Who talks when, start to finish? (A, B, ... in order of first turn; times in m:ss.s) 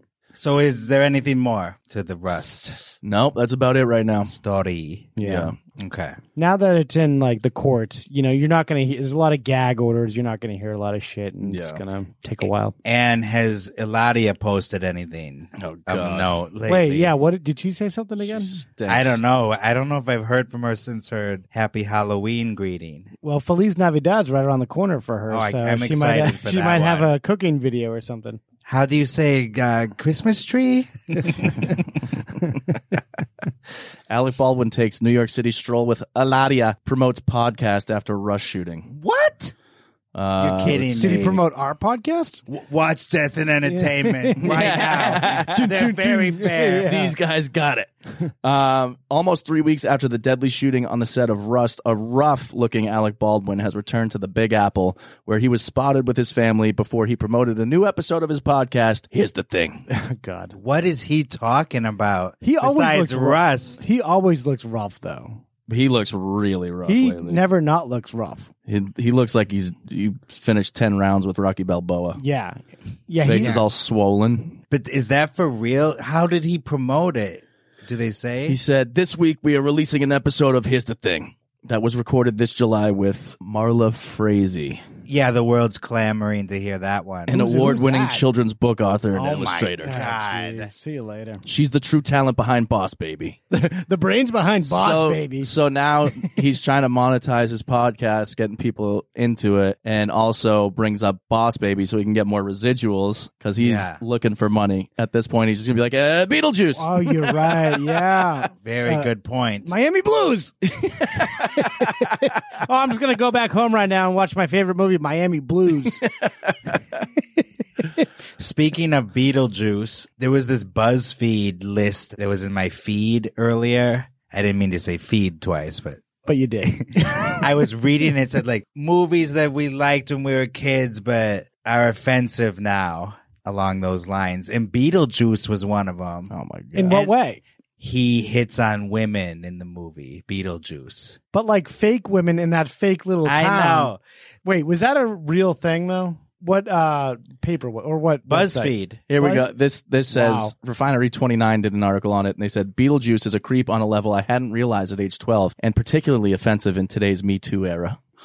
0:00.3-0:02.8 A
0:03.0-0:04.3 B
0:04.2-0:05.2 A
0:05.2-0:05.5 C
0:05.2-0:05.5 B
0:05.8-0:06.2 A
0:06.4-0:12.8 C
0:11.4-0:11.8 B
0:12.8-0:17.1 A
0:15.6-0:16.3 B
0:16.7-0:18.5 C
0:18.2-0:19.2 B
0:18.9-0:23.1 A
0:23.2-0:28.4 C
0:25.3-0:27.1 A
0:28.6-0:31.6 A
0:34.1-0:38.9 B
0:39.0-0:39.5 A
0:40.2-0:41.2 B
0:40.4-0:41.4 A
0:40.9-0:42.4 C
0:42.5-0:46.9 A
0:43.7-0:47.1 C
0:44.4-0:45.9 B
0:46.7-0:47.9 B
0:48.4-0:59.8 B
0:59.9-1:00.6 C
1:00.5-1:03.8 A
1:02.4-1:05.4 C
1:05.7-1:07.4 B
1:06.8-1:08.5 C
1:08.7-1:12.2 B
1:12.2-1:13.6 C
1:13.2-1:14.6 B
1:13.4-1:13.6 A
1:14.7-1:18.6 A
1:18.5-1:24.8 B
1:25.1-1:27.3 A
1:27.3-1:30.0 B
1:27.3-1:28.2 C
1:29.1-1:30.7 A
1:29.8-1:31.4 C
1:31.4-1:33.4 B
1:33.5-1:35.5 C
1:34.6-1:47.8 B
1:43.6-1:44.0 A
1:46.8-1:49.1 C
1:48.6-1:49.7 A
1:49.6-1:50.5 C
1:51.4-1:56.0 C
1:58.4-2:06.0 A
2:06.3-2:06.8 C
2:07.4-2:16.3 A
2:16.3-2:17.0 B
2:16.8-2:17.4 C
2:17.8-2:21.2 A
2:21.3-2:23.9 C
2:23.2-2:24.0 A
2:24.4-2:29.5 C
2:28.3-2:29.0 A
2:29.1-2:38.0 B
2:30.1-2:30.5 C